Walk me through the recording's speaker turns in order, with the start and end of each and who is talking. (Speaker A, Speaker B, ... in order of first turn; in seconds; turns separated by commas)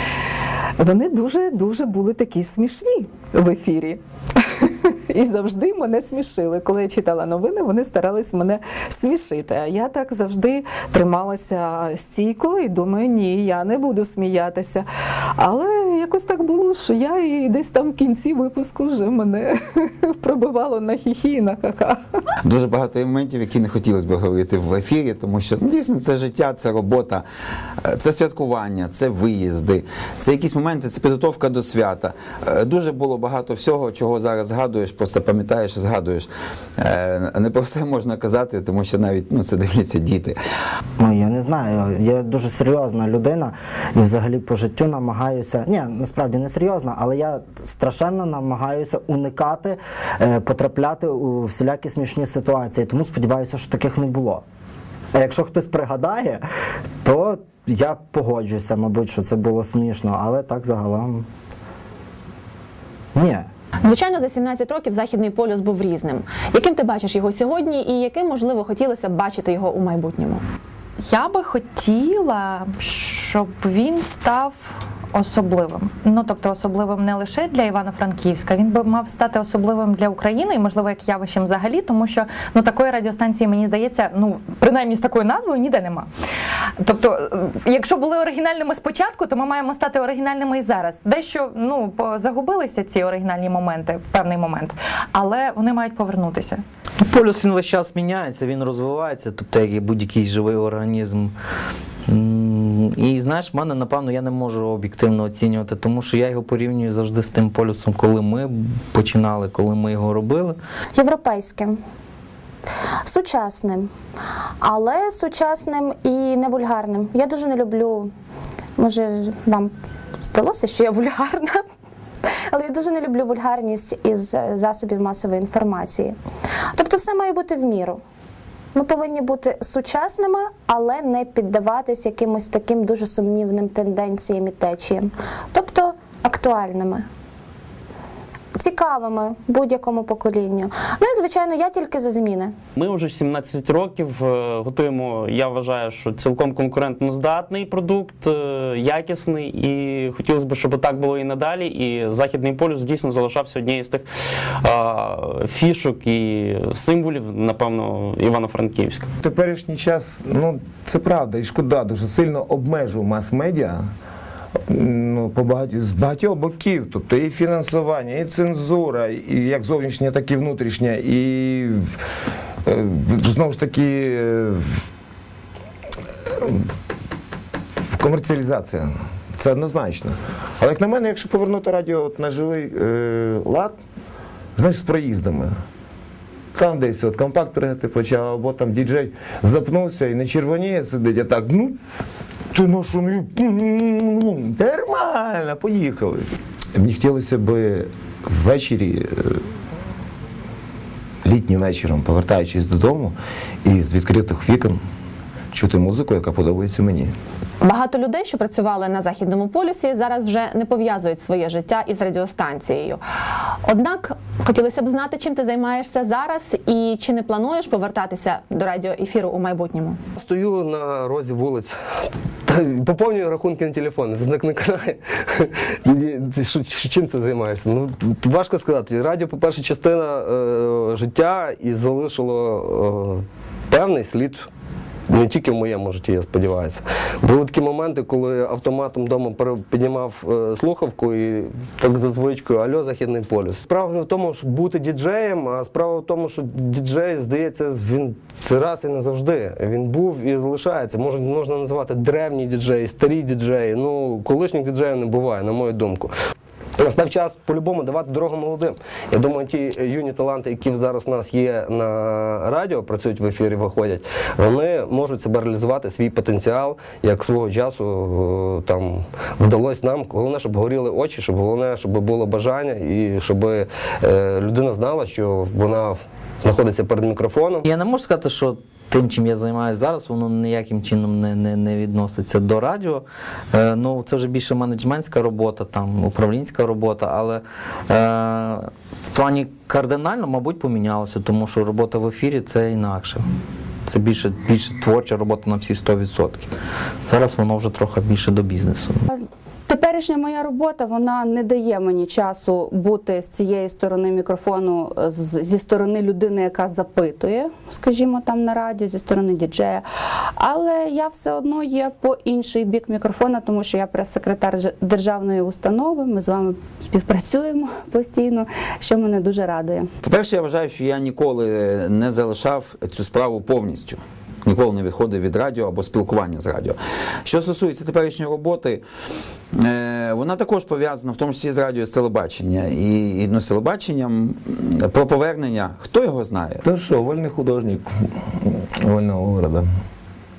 Speaker A: 0.8-22.0, Speaker B: 22.4-27.2, Speaker B: 27.8-40.4, Speaker C: 41.0-54.4, Speaker C: 55.1-56.4, Speaker C: 57.0-61.3, Speaker C: 63.1-63.5, Speaker D: 63.8-70.4, Speaker E: 71.0-86.1, Speaker E: 86.8-96.6, Speaker F: 97.0-101.3, Speaker F: 102.1-110.6, Speaker G: 110.9-111.8, Speaker G: 113.0-113.9, Speaker G: 114.6-118.1, Speaker G: 118.8-121.6, Speaker G: 122.5-126.2, Speaker G: 126.7-128.0, Speaker G: 128.7-137.1, Speaker G: 138.6-142.5, Speaker H: 142.8-154.1, Speaker H: 154.6-159.1, Speaker I: 159.2-163.8, Speaker I: 164.7-171.9, Speaker I: 172.6-174.8, Speaker I: 177.9-183.8, Speaker I: 184.6-185.5, Speaker I: 186.5-191.8, Speaker I: 192.5-199.4, Speaker I: 201.2-204.8, Speaker I: 205.5-207.1, Speaker D: 207.6-213.0, Speaker D: 213.6-220.0, Speaker J: 220.2-221.7, Speaker J: 222.5-234.5, Speaker J: 235.1-256.1, Speaker J: 256.8-277.6, Speaker F: 277.6-293.2, Speaker F: 293.9-296.5, Speaker F: 297.1-299.1, Speaker K: 299.7-309.8, Speaker K: 310.4-319.9, Speaker B: 320.0-328.8, Speaker B: 329.5-336.6, Speaker I: 336.6-339.6